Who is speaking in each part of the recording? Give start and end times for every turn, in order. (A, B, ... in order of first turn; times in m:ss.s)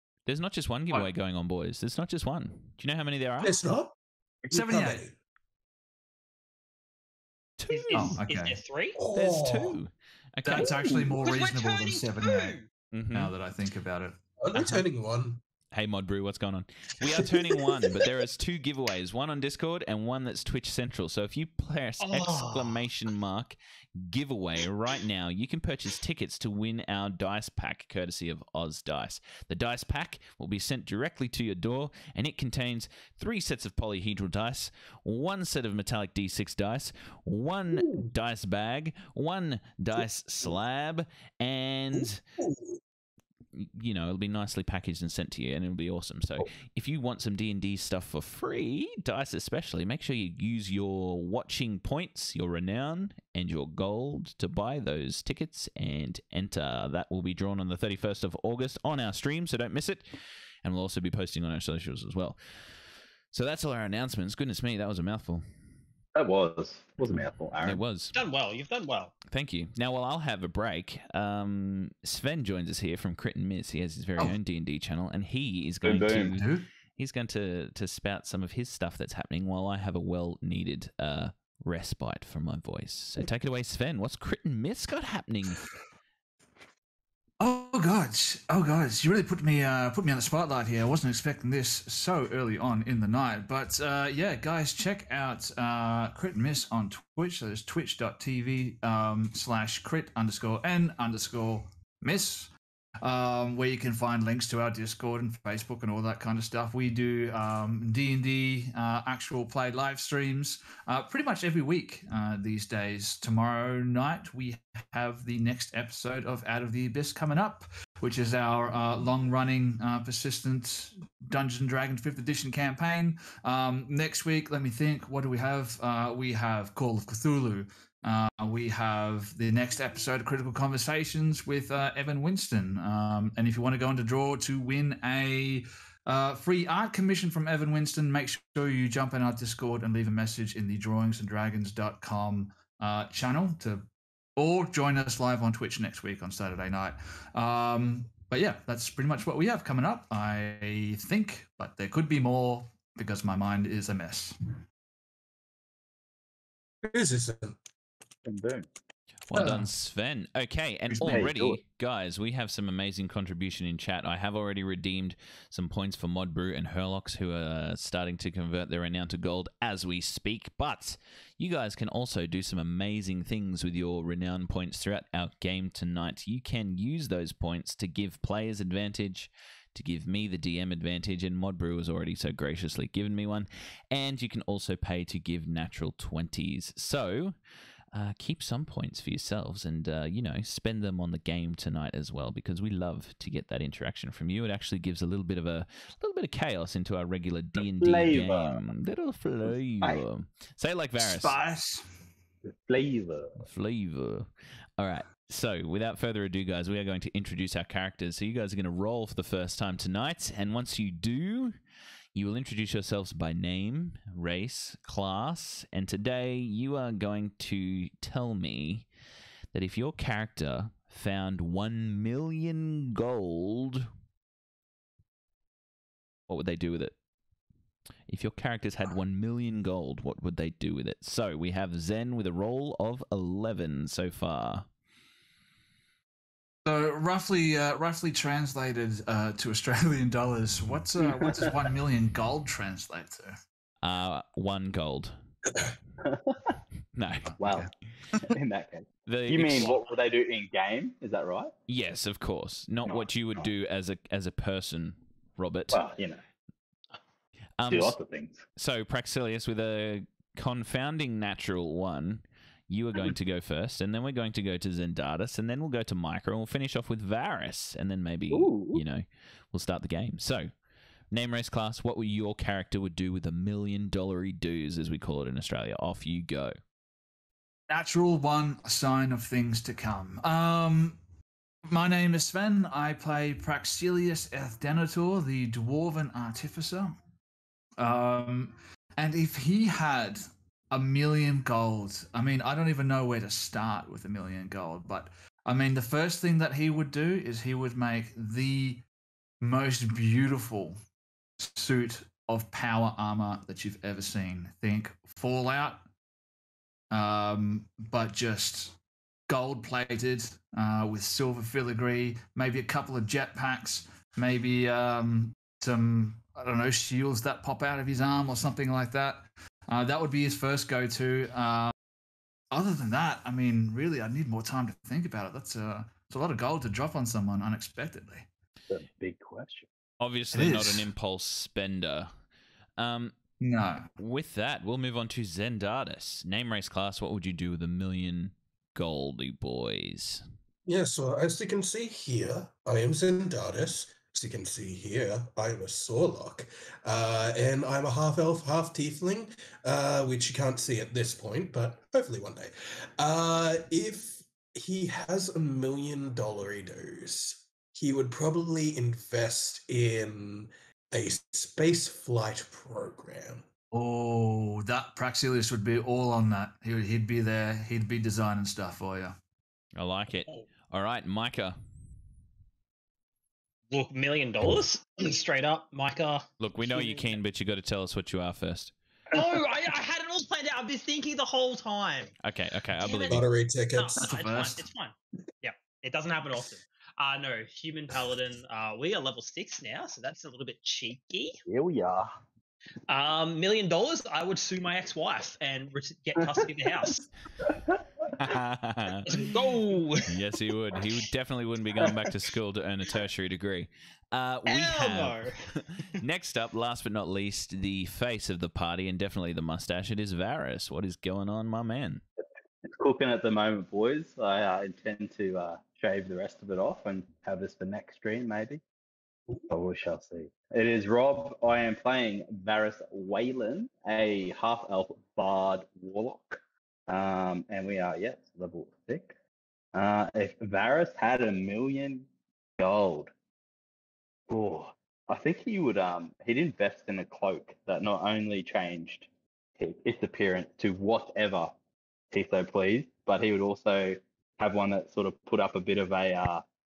0:00.2-0:03.6 A
0:03.4-0:05.1 B
0:04.5-0:05.0 C
0:07.6-0:08.2 A
0:07.7-0:09.0 D
0:07.9-0:08.6 C
0:09.0-0:09.8 B
0:09.1-0:10.8 A
0:10.4-0:12.6 C
0:11.2-0:12.7 D
0:12.9-0:13.3 A
0:13.1-0:14.8 C
0:14.4-0:15.4 B
0:15.7-0:42.2 A
0:22.0-0:22.8 D
0:37.7-0:38.1 B
0:41.9-0:42.8 B
0:43.5-1:02.4 A
1:03.3-1:05.4 A
1:06.1-1:07.8 E
1:07.6-1:08.2 A
1:08.1-1:09.1 D
1:09.3-1:25.6 A
1:15.8-1:16.4 E
1:15.9-1:16.7 C
1:27.4-1:42.5 C
1:43.0-2:34.5 C
2:36.8-2:37.6 B
2:38.2-2:38.7 E
2:39.3-3:07.3 A
2:39.3-2:39.7 C
2:40.9-2:41.3 C
2:41.0-2:41.6 E
3:07.9-3:21.4 A
3:17.6-3:18.6 E
3:21.0-3:21.8 C
3:22.5-3:23.4 E
3:23.4-3:31.6 A
3:32.1-3:38.9 A
3:39.5-3:43.9 A
3:46.3-3:46.9 A
3:48.1-3:54.6 A
3:56.6-4:03.4 C
4:01.0-4:01.6 E
4:03.8-4:05.2 A
4:06.0-4:06.6 E
4:06.9-4:07.4 A
4:07.3-4:08.3 C
4:07.4-4:07.7 E
4:08.2-4:11.5 E
4:09.1-4:09.8 A
4:11.7-4:15.8 A
4:15.7-4:16.2 E
4:17.6-4:18.0 A
4:17.7-4:18.4 E
4:18.6-4:30.5 A
4:28.3-4:28.8 E
4:31.1-4:36.5 A
4:37.7-4:41.0 C
4:41.7-4:47.0 C
4:47.8-4:58.8 C
4:59.4-5:00.8 C
5:01.4-5:05.8 C
5:06.9-5:08.8 C
5:09.3-5:21.7 C
5:22.5-5:28.3 C
5:28.7-5:29.7 E
5:30.0-5:32.1 A
5:30.3-5:30.9 C
5:32.8-5:33.1 A
5:33.4-5:33.9 C
5:34.0-5:40.2 A
5:40.6-6:03.4 B
6:03.7-6:09.2 C
6:09.8-6:11.6 A
6:13.7-6:17.1 D
6:16.4-6:18.7 A
6:19.1-6:22.1 D
6:19.1-6:19.4 E
6:22.2-6:23.2 A
6:22.7-6:31.4 D
6:23.1-6:24.0 B
6:24.0-6:24.6 C
6:31.5-6:32.1 E
6:32.9-6:37.0 D
6:37.4-6:37.8 E
6:38.2-6:39.0 A
6:39.0-6:40.1 D
6:40.1-6:52.0 A
6:44.5-6:46.0 D
6:52.6-6:58.6 E
6:59.5-7:09.1 E
7:09.7-7:13.1 E
7:14.3-7:19.1 E
7:19.6-7:21.5 E
7:22.1-7:26.4 E